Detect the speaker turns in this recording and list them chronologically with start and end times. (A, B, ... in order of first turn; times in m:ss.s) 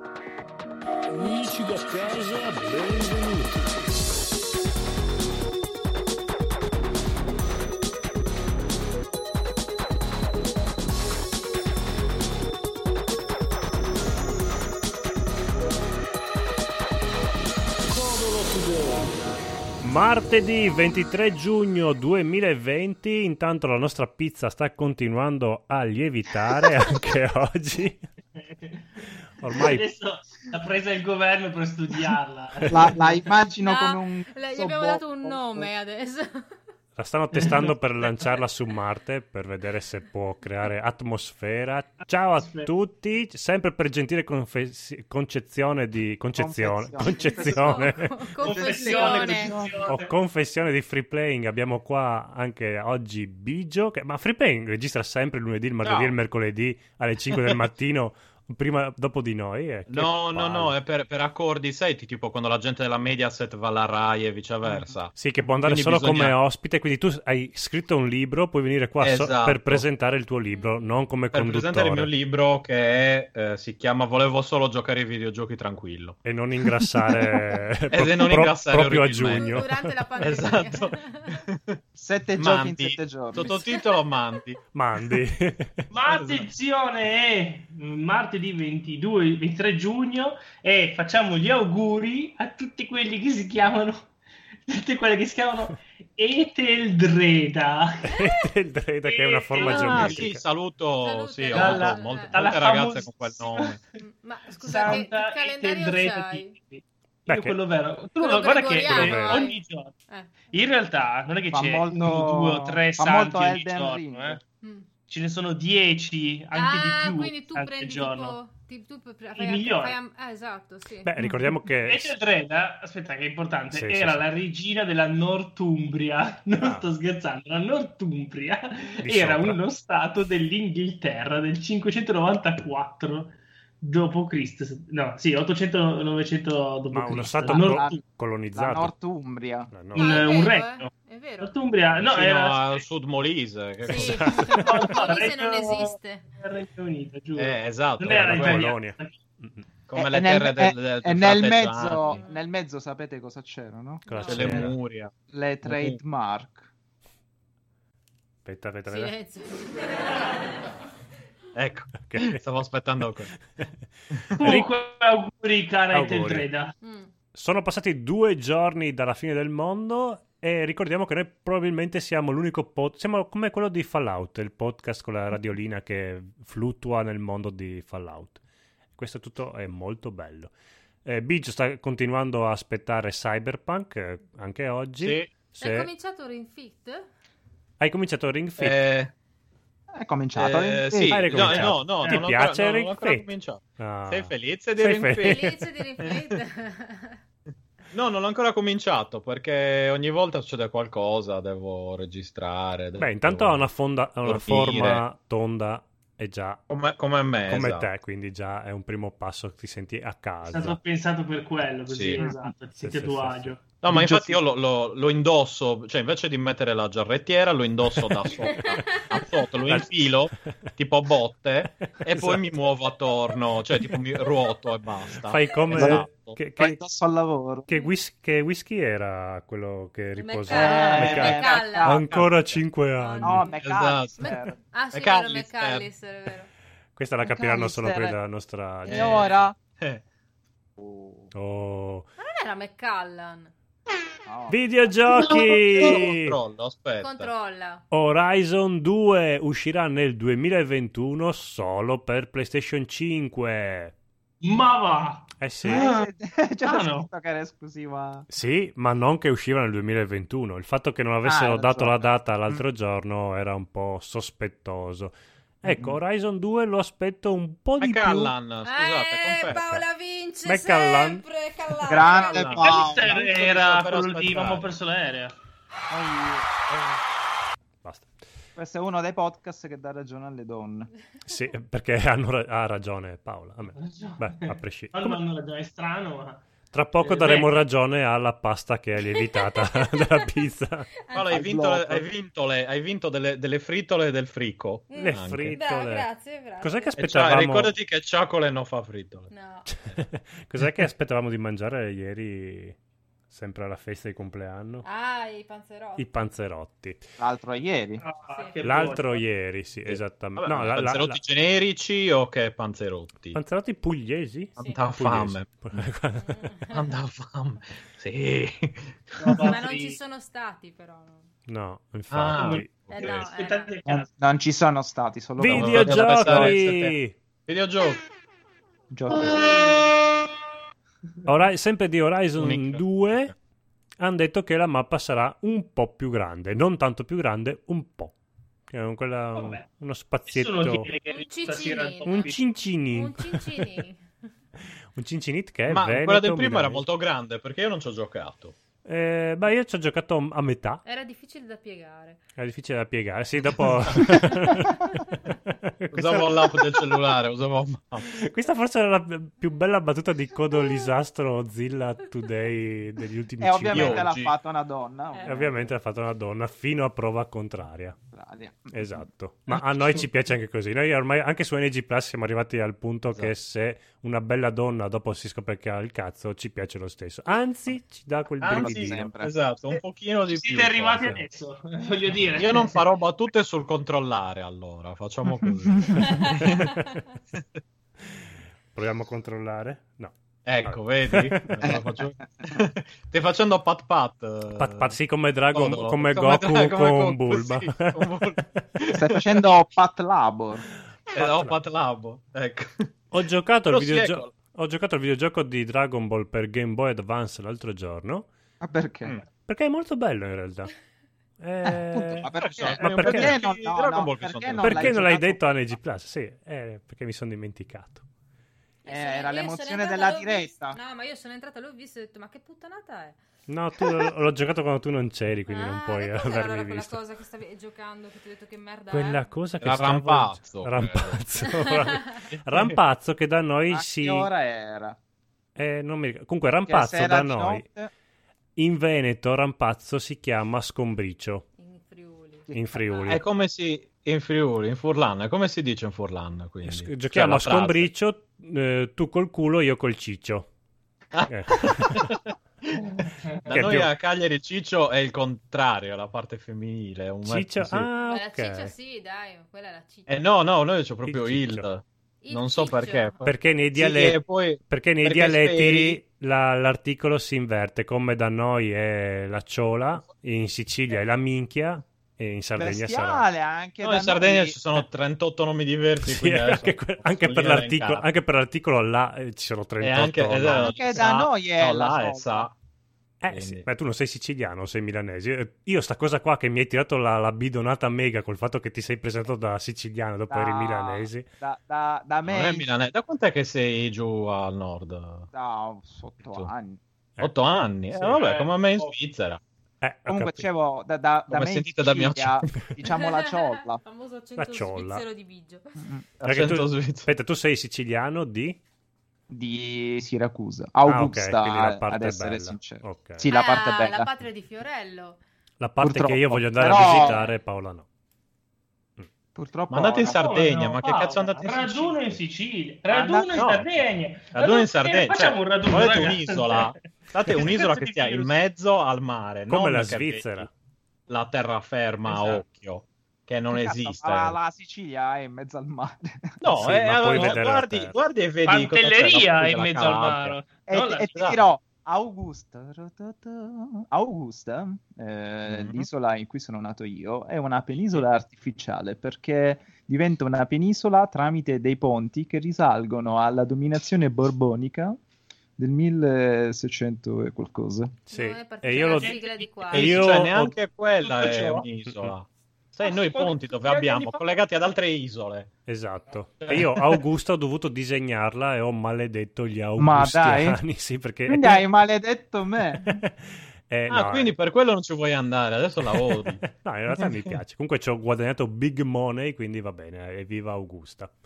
0:01.2-0:03.5 A
0:19.8-0:28.0 A
0:28.4-0:33.3 B
0:29.4-0:29.8 A
0:32.7-0:35.7 C
0:33.6-0:36.6 D
0:37.0-0:48.4 A
0:37.3-0:38.4 B
0:42.0-0:42.7 B
0:46.4-0:47.9 C
0:47.0-0:49.6 D
0:48.4-0:50.2 B
0:48.4-0:49.9 C
0:49.8-1:00.7 A
0:55.8-0:56.1 E
0:59.9-1:05.1 E
1:04.6-1:05.0 C
1:05.1-1:12.1 A
1:05.6-1:06.4 E
1:09.0-1:09.8 E
1:10.5-1:10.8 D
1:11.3-1:16.2 E
1:16.2-1:20.1 A
1:17.9-1:19.6 E
1:19.2-1:21.4 D
1:20.2-1:21.7 E
1:21.9-1:23.5 C
1:22.4-1:24.6 E
1:23.4-1:24.0 D
1:24.7-1:25.8 A
1:25.9-1:34.1 B
1:26.1-1:26.5 E
1:34.7-1:38.2 B
1:38.0-1:40.4 A
1:39.0-1:39.9 B
1:39.7-1:40.3 D
1:39.7-1:43.8 E
1:41.0-1:42.4 D
1:41.5-1:43.8 B
1:44.0-1:46.5 D
1:44.5-1:49.9 B
1:47.3-1:47.6 A
1:48.2-1:50.5 D
1:48.8-1:49.5 A
1:50.5-1:54.4 B
1:51.5-1:54.4 C
1:54.6-1:54.9 D
1:55.1-1:58.4 B
1:56.5-2:01.1 D
1:59.3-2:00.0 B
2:01.0-2:02.1 A
2:01.8-2:18.0 B
2:03.7-2:04.3 A
2:06.6-2:06.8 A
2:09.0-2:09.6 A
2:16.9-2:18.9 A
2:17.5-2:19.7 C
2:19.7-2:20.2 A
2:19.9-2:22.8 B
2:20.0-2:21.5 D
2:22.0-2:24.4 E
2:23.8-2:24.9 A
2:23.8-2:26.3 D
2:24.6-2:29.2 B
2:27.4-2:28.7 E
2:28.1-2:29.6 A
2:29.9-2:32.2 E
2:29.9-2:34.7 C
2:32.0-2:32.4 D
2:34.1-2:34.6 D
2:34.1-2:34.7 A
2:34.3-2:35.1 E
2:35.3-2:36.7 C
2:35.6-2:36.0 E
2:38.4-2:39.1 A
2:38.9-2:40.3 D
2:41.5-2:43.3 E
2:42.0-2:42.4 A
2:44.1-2:44.4 E
2:44.4-2:46.7 B
2:44.4-2:44.7 A
2:45.9-2:46.5 A
2:46.8-2:47.1 D
2:47.3-2:58.4 A
2:58.9-3:00.5 A
3:01.0-3:05.9 A
3:05.0-3:05.3 E
3:05.6-3:07.1 D
3:07.8-3:08.8 A
3:08.6-3:09.1 E
3:09.9-3:11.2 C
3:10.3-3:15.5 E
3:11.1-3:13.2 A
3:11.5-3:12.3 B
3:13.8-3:15.6 A
3:15.2-3:17.2 D
3:16.0-3:16.2 B
3:17.9-3:23.7 E
3:23.0-3:26.6 A
3:24.2-3:25.0 E
3:26.7-3:27.9 E
3:27.4-3:30.8 A
3:30.4-3:34.2 B
3:31.9-3:32.2 E
3:32.7-3:33.5 A
3:33.8-3:46.4 E
3:33.9-3:34.2 C
3:38.6-3:38.9 D
3:39.7-3:40.7 A
3:41.9-3:42.4 A
3:45.1-3:46.8 A
3:45.7-3:46.0 C
3:46.6-3:47.7 C
3:47.7-3:53.5 A
3:50.2-3:52.0 D
3:50.5-3:52.6 C
3:50.9-3:51.5 E
3:53.0-3:53.6 D
3:53.2-3:54.6 C
3:53.6-3:54.3 E
3:54.2-3:56.5 D
3:54.9-3:55.9 E
3:57.0-3:59.1 A
3:57.2-3:58.2 C
3:58.8-3:59.6 C
3:58.9-4:00.0 E
4:00.8-4:01.3 C
4:01.3-4:02.1 A
4:02.2-4:03.5 D
4:04.2-4:04.9 C
4:04.5-4:06.4 A
4:05.8-4:07.3 E
4:07.0-4:07.8 D
4:07.9-4:13.9 A
4:14.4-4:16.1 B
4:15.4-4:15.8 A
4:15.6-4:18.3 C
4:16.6-4:17.1 B
4:18.3-4:28.3 A
4:21.2-4:22.6 C
4:27.8-4:29.6 E
4:28.6-4:32.6 D
4:29.5-4:29.8 A
4:30.4-4:31.2 A
4:31.8-4:33.3 C
4:32.1-4:34.8 E
4:32.6-4:35.3 B
4:35.9-4:36.4 C
4:37.8-4:38.1 A
4:38.6-4:40.9 C
4:41.2-4:45.2 A
4:43.8-4:46.4 B
4:46.7-4:50.9 A
4:47.0-4:47.5 B
4:49.2-4:50.2 D
4:51.0-4:51.3 D
4:51.1-4:55.6 E
4:51.2-4:52.1 C
4:54.9-4:57.0 D
4:55.0-4:57.7 A
4:57.0-4:59.3 E
4:59.3-4:59.7 D
4:59.7-5:02.8 A
5:03.3-5:04.8 A
5:04.8-5:06.0 D
5:06.0-5:07.0 A
5:07.2-5:08.0 C
5:08.0-5:09.2 B
5:08.3-5:08.6 D
5:08.6-5:11.2 A
5:09.8-5:13.4 E
5:13.3-5:16.5 A
5:14.6-5:15.5 E
5:16.2-5:16.8 D
5:16.7-5:19.6 E
5:19.2-5:20.0 B
5:19.4-5:21.2 D
5:21.5-5:22.9 A
5:22.1-5:23.2 E
5:22.3-5:23.7 D
5:22.4-5:24.1 B
5:23.8-5:26.5 C
5:25.4-5:27.1 A
5:25.5-5:27.0 E
5:27.5-5:28.0 E
5:28.9-5:29.5 C
5:31.2-5:33.3 A
5:32.4-5:33.3 E
5:34.0-5:38.1 A
5:38.7-5:40.9 A
5:39.3-5:39.7 B
5:40.2-5:42.4 B
5:41.0-5:42.3 D
5:42.0-5:43.6 A
5:42.9-5:44.0 D
5:44.9-5:46.8 A
5:45.7-5:48.5 E
5:48.8-5:50.8 A
5:50.8-5:52.2 D
5:52.4-5:56.8 A
5:55.9-5:58.1 E
5:58.1-6:04.1 A
6:03.4-6:05.7 C
6:03.7-6:04.4 E
6:05.1-6:05.5 D
6:05.2-6:08.0 A
6:08.1-6:08.7 C
6:08.7-6:19.1 A
6:18.4-6:21.1 E
6:18.5-6:19.3 C
6:19.7-6:22.8 B
6:22.3-6:26.7 E
6:26.6-6:26.8 A
6:28.7-6:30.1 A
6:30.4-6:35.0 E
6:30.6-6:31.7 A
6:34.5-6:38.0 A
6:35.5-6:39.4 E
6:39.0-6:40.6 C
6:41.1-6:41.6 A
6:41.1-6:43.0 E
6:43.1-6:48.3 A
6:43.7-6:44.3 E
6:48.6-6:49.2 C
6:49.4-6:50.7 A
6:51.4-6:53.4 A
6:51.6-6:55.4 C
6:52.4-6:55.0 E
6:54.6-6:58.0 A
6:58.8-7:03.2 D
6:58.9-7:00.8 C
7:03.5-7:07.0 A
7:05.5-7:09.2 D
7:08.9-7:14.3 A
7:09.6-7:11.2 E
7:11.5-7:12.0 D
7:13.7-7:15.0 C
7:15.6-7:17.7 A
7:16.7-7:17.9 C
7:18.6-7:21.4 A
7:21.6-7:22.5 D
7:22.5-7:22.9 C
7:22.5-7:23.2 A
7:23.1-7:27.9 E
7:26.6-7:30.5 A
7:31.1-7:32.9 E
7:31.3-7:32.0 A
7:32.8-7:33.6 B
7:33.5-7:33.9 A
7:33.5-7:37.9 E
7:37.2-7:38.7 A
7:38.0-7:40.2 D
7:40.1-7:46.0 E
7:41.1-7:41.6 A
7:42.2-7:43.3 D
7:43.2-7:53.3 A
7:52.6-7:54.8 C
7:53.8-7:58.0 E
7:56.0-8:00.8 A
7:59.8-8:02.5 E
8:00.6-8:02.5 C
8:03.2-8:11.2 A
8:03.3-8:03.6 E
8:10.3-8:12.7 C
8:12.2-8:15.3 E
8:15.3-8:16.8 C
8:16.2-8:16.5 E
8:17.2-8:19.4 E
8:17.9-8:18.9 B
8:19.8-8:20.5 A
8:20.1-8:23.8 C
8:21.3-8:22.5 E
8:22.9-8:25.8 D
8:24.4-8:25.0 A
8:25.8-8:26.3 C
8:26.2-8:28.6 A
8:26.2-8:27.1 E
8:29.3-8:34.1 C
8:30.8-8:33.3 A
8:33.3-8:35.2 D
8:35.6-8:37.8 A
8:35.8-8:37.3 C
8:39.3-8:40.4 C
8:39.7-8:42.2 E
8:40.0-8:46.7 B
8:42.9-8:43.5 C
8:43.3-8:43.6 E
8:44.3-8:50.5 E
8:47.4-8:48.3 B
8:49.5-8:50.5 A
8:51.1-8:54.4 E
8:52.0-8:52.4 B
8:53.5-8:56.4 C
8:56.4-9:00.4 E
8:56.6-8:58.0 A
8:58.4-9:01.1 B
9:00.7-9:15.0 C
9:01.1-9:01.4 E
9:05.5-9:05.9 E
9:15.6-9:17.9 C
9:18.1-9:19.2 A
9:18.1-9:19.9 D
9:18.8-9:20.5 B
9:19.7-9:25.5 E
9:19.8-9:20.6 A
9:21.0-9:21.6 B
9:22.8-9:24.3 C
9:25.7-9:31.6 A
9:29.8-9:30.6 C
9:31.3-9:33.0 C
9:32.7-9:34.3 A
9:33.9-9:36.4 E
9:35.8-9:41.1 A
9:37.0-9:37.4 E